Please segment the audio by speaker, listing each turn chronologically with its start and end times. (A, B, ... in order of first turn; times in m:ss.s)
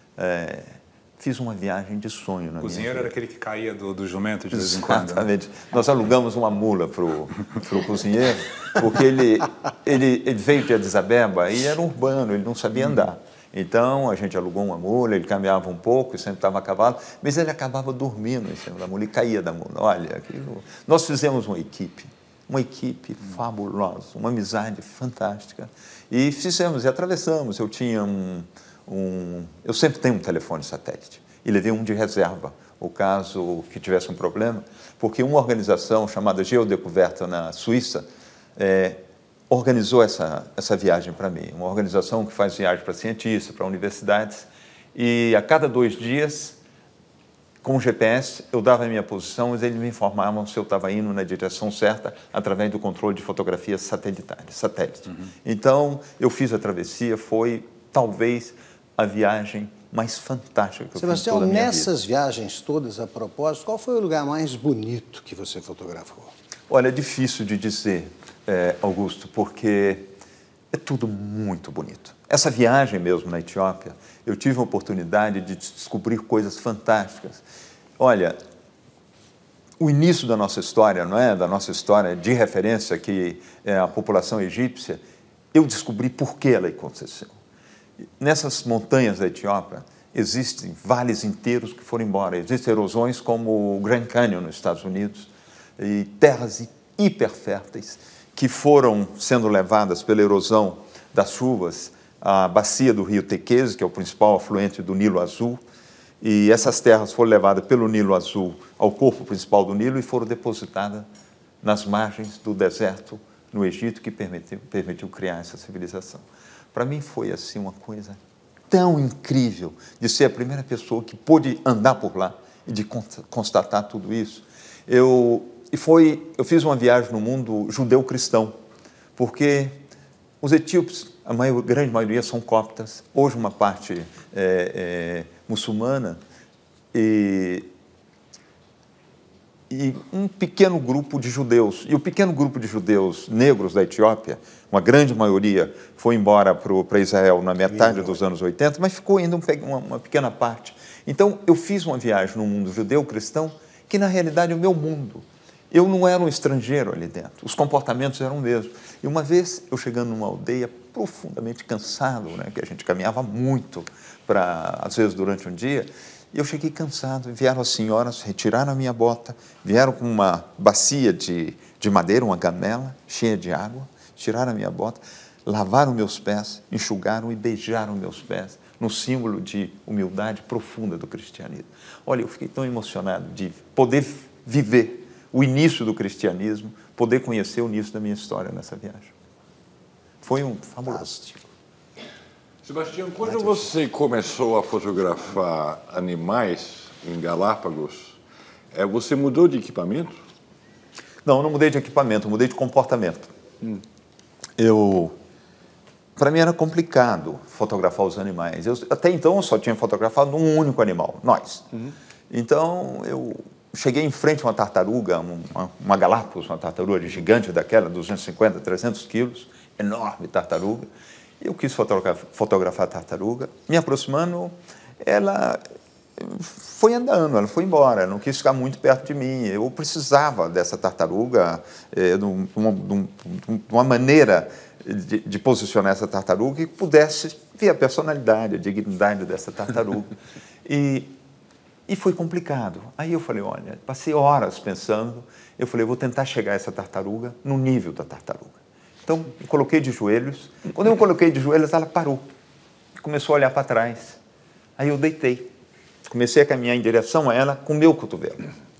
0:00.2-0:03.1 A
0:02.6-0:05.3 B
0:04.5-0:46.6 A
0:47.6-1:01.9 A
1:01.0-1:06.3 C
1:06.7-1:10.1 A
1:10.7-1:17.4 A
1:18.0-1:18.4 A
1:19.8-1:25.0 A
1:25.5-1:27.3 A
1:28.2-1:45.6 A
1:46.2-1:51.1 A
1:51.6-2:08.6 A
2:09.2-2:09.8 A
2:10.4-2:16.2 A
2:16.9-2:17.7 A
2:19.7-3:09.1 A
2:27.6-2:28.2 C
3:10.2-3:11.5 A
3:12.6-3:18.2 D
3:13.2-3:13.7 A
3:18.7-3:20.2 D
3:21.2-3:23.3 A
3:24.6-3:25.1 A
3:26.2-3:31.7 A
3:32.3-3:40.9 A
3:41.4-3:45.6 A
3:46.2-4:01.2 A
4:01.9-4:12.3 A
4:13.0-4:14.2 A
4:14.8-4:15.5 A
4:16.1-4:18.5 A